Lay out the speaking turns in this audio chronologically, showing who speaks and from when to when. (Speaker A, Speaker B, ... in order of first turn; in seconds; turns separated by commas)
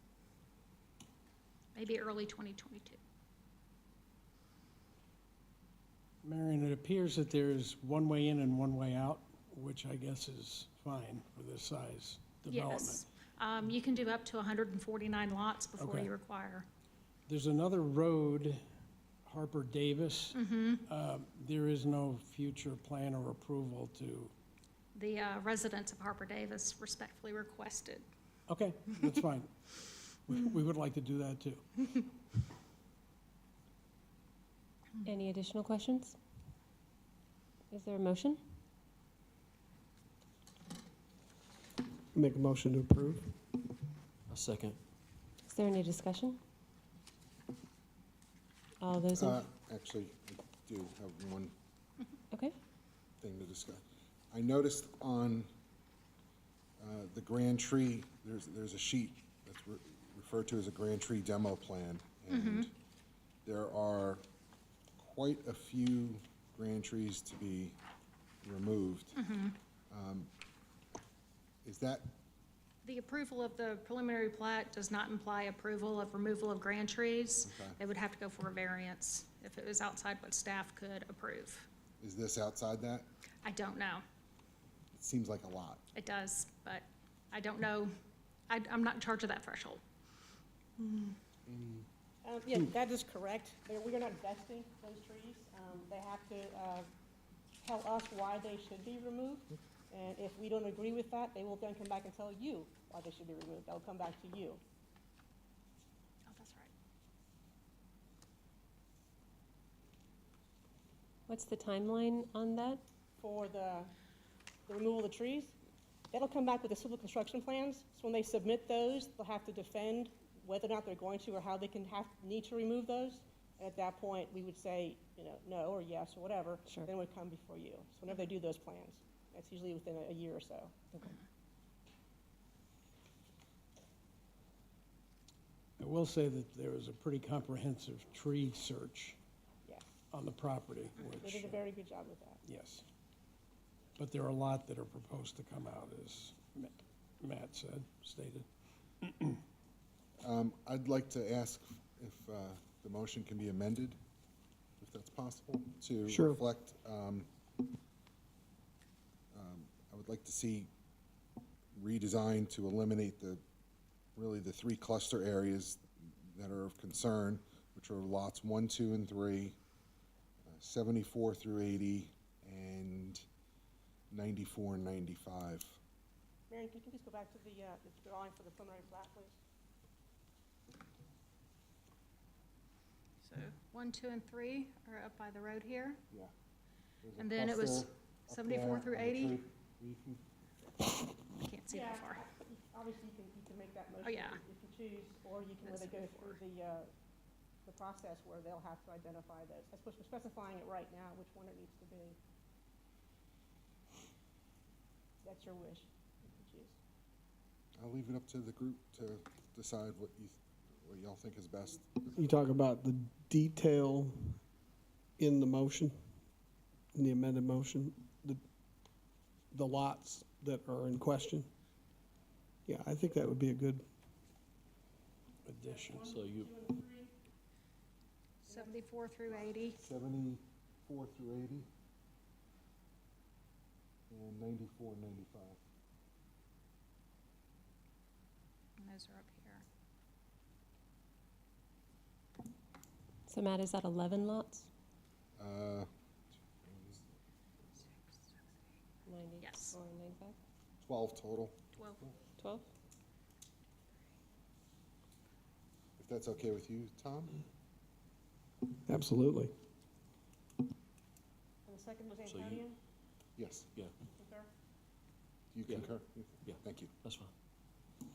Speaker A: 1.8-3.0, Speaker B: 6.2-13.1, Speaker A: 12.5-16.7, Speaker B: 15.8-16.1, Speaker B: 17.3-18.6, Speaker B: 19.2-24.3, Speaker A: 20.4-20.8, Speaker A: 24.9-28.1, Speaker B: 28.5-29.5, Speaker B: 30.2-31.6, Speaker C: 35.0-36.2, Speaker C: 37.7-38.4, Speaker D: 42.1-43.3, Speaker E: 44.3-44.8, Speaker C: 45.4-46.4, Speaker C: 48.8-49.4, Speaker F: 49.2-51.5, Speaker F: 53.2-55.5, Speaker F: 56.8-62.7, Speaker A: 62.3-62.7, Speaker F: 63.5-64.2, Speaker F: 65.0-67.8, Speaker F: 68.4-69.2, Speaker A: 69.2-69.6, Speaker F: 69.9-70.3, Speaker F: 71.6-72.2, Speaker A: 72.8-81.7, Speaker F: 77.5-77.8, Speaker F: 82.0-83.1, Speaker A: 83.4-84.0, Speaker F: 84.9-85.8, Speaker A: 85.9-87.9, Speaker A: 88.5-89.8, Speaker A: 90.8-91.2, Speaker F: 91.5-91.9, Speaker G: 92.2-96.9, Speaker G: 97.6-104.6, Speaker A: 106.3-106.7, Speaker C: 111.3-112.8, Speaker G: 113.2-113.9, Speaker G: 114.7-115.5, Speaker G: 116.1-130.7, Speaker B: 135.8-139.2, Speaker G: 139.7-139.9, Speaker B: 140.1-141.6, Speaker G: 141.2-142.4, Speaker B: 142.4-142.8, Speaker B: 144.0-148.5, Speaker B: 149.0-149.4, Speaker F: 150.2-154.0, Speaker F: 154.8-157.3, Speaker D: 156.1-156.4, Speaker F: 159.3-160.7, Speaker F: 161.7-163.4, Speaker F: 164.2-169.6, Speaker F: 170.5-173.2, Speaker F: 174.1-175.8, Speaker G: 176.5-179.4, Speaker A: 183.2-186.0, Speaker F: 187.0-191.0, Speaker A: 187.2-189.4, Speaker A: 191.4-192.2, Speaker G: 191.7-196.9, Speaker A: 194.0-194.4, Speaker A: 195.6-196.4, Speaker G: 197.7-202.2, Speaker G: 205.2-206.8, Speaker F: 207.8-211.9, Speaker D: 212.1-214.4, Speaker D: 215.2-215.9, Speaker D: 216.9-218.4, Speaker D: 219.5-221.5, Speaker D: 222.7-223.8, Speaker B: 225.4-226.1, Speaker E: 226.0-226.8, Speaker A: 228.4-229.8, Speaker F: 229.7-231.7, Speaker F: 234.1-235.6, Speaker A: 238.8-239.7, Speaker C: 243.3-244.7, Speaker F: 245.4-245.9, Speaker F: 246.6-247.1, Speaker C: 249.1-250.4, Speaker A: 249.4-249.8, Speaker F: 250.8-251.6, Speaker C: 252.4-252.7, Speaker F: 256.0-257.4, Speaker D: 258.9-259.5, Speaker G: 261.7-262.8, Speaker E: 262.3-262.6, Speaker F: 263.4-263.7, Speaker G: 264.2-264.5, Speaker F: 265.5-266.9, Speaker E: 266.4-267.3